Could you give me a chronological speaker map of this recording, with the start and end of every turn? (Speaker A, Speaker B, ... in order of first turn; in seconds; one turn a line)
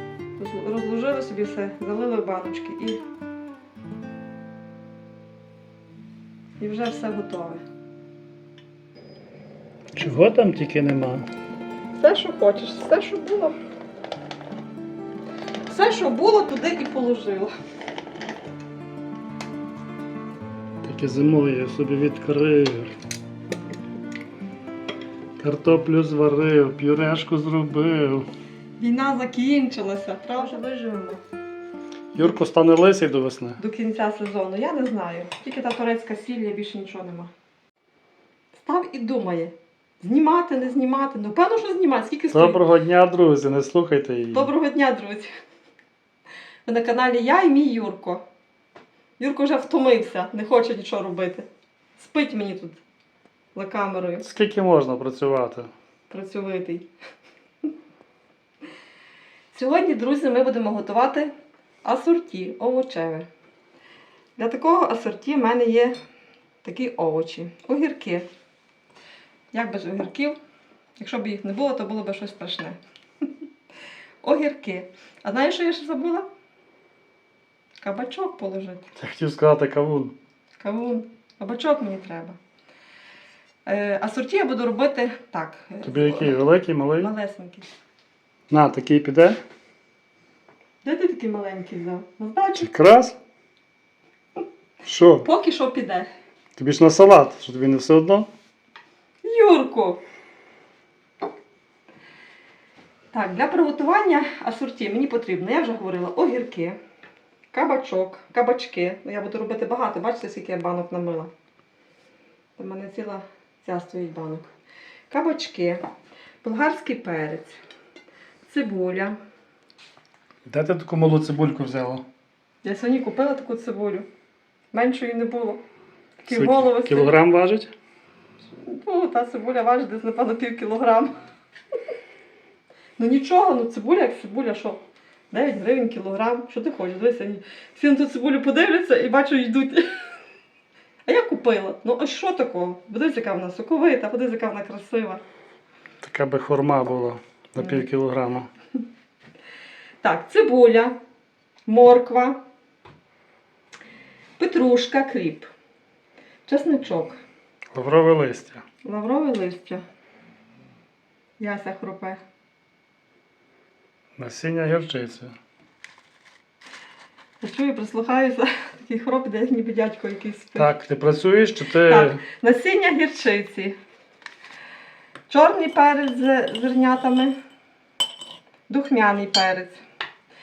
Speaker A: 0.4-3.0
Speaker A: 6.6-7.6
Speaker B: 9.9-11.3
Speaker A: 12.0-13.6
Speaker A: 15.7-17.5
Speaker B: 20.8-22.9
Speaker B: 25.4-28.3
Speaker A: 28.8-31.2
Speaker B: 32.1-33.6
Speaker A: 33.6-37.3
Speaker A: 38.5-42.6
Speaker B: 42.3-44.5
Speaker A: 44.3-45.3
Speaker A: 46.6-48.2
Speaker A: 49.2-51.5
Speaker A: 52.0-52.8
Speaker A: 53.5-54.2
Speaker B: 54.2-55.7
Speaker A: 56.1-56.9
Speaker A: 59.5-61.3
Speaker A: 61.8-63.3
Speaker A: 64.4-66.0
Speaker A: 66.6-68.3
Speaker A: 69.5-70.4
Speaker A: 71.0-72.8
Speaker A: 74.2-76.3
Speaker A: 77.8-78.9
Speaker B: 79.0-80.2
Speaker A: 80.6-82.4
Speaker A: 83.7-86.4
Speaker B: 85.8-87.1
Speaker A: 87.0-87.7
Speaker B: 88.5-89.4
Speaker A: 90.8-92.7
Speaker B: 92.6-93.2
Speaker B: 94.8-95.3
Speaker A: 95.2-96.1
Speaker B: 96.6-98.3
Speaker A: 99.2-100.0
Speaker A: 103.1-106.8
Speaker A: 107.5-111.3
Speaker A: 112.6-114.5
Speaker A: 115.1-115.8
Speaker A: 116.4-117.6
Speaker A: 118.5-119.2
Speaker B: 120.5-122.0
Speaker A: 122.6-124.1
Speaker A: 124.7-125.6
Speaker A: 126.2-127.2
Speaker B: 126.3-127.7
Speaker A: 128.6-131.1
Speaker A: 133.0-139.9
Speaker A: 141.1-145.2
Speaker B: 146.0-148.5
Speaker A: 147.6-147.8
Speaker A: 150.0-151.0
Speaker A: 151.7-152.4
Speaker A: 154.4-155.5
Speaker A: 156.5-157.2
Speaker B: 157.7-158.6
Speaker A: 158.8-159.8
Speaker A: 161.4-162.2
Speaker B: 164.2-165.3
Speaker A: 167.4-170.7
Speaker B: 170.6-172.2
Speaker A: 171.8-173.8
Speaker A: 175.3-177.3
Speaker A: 178.7-179.8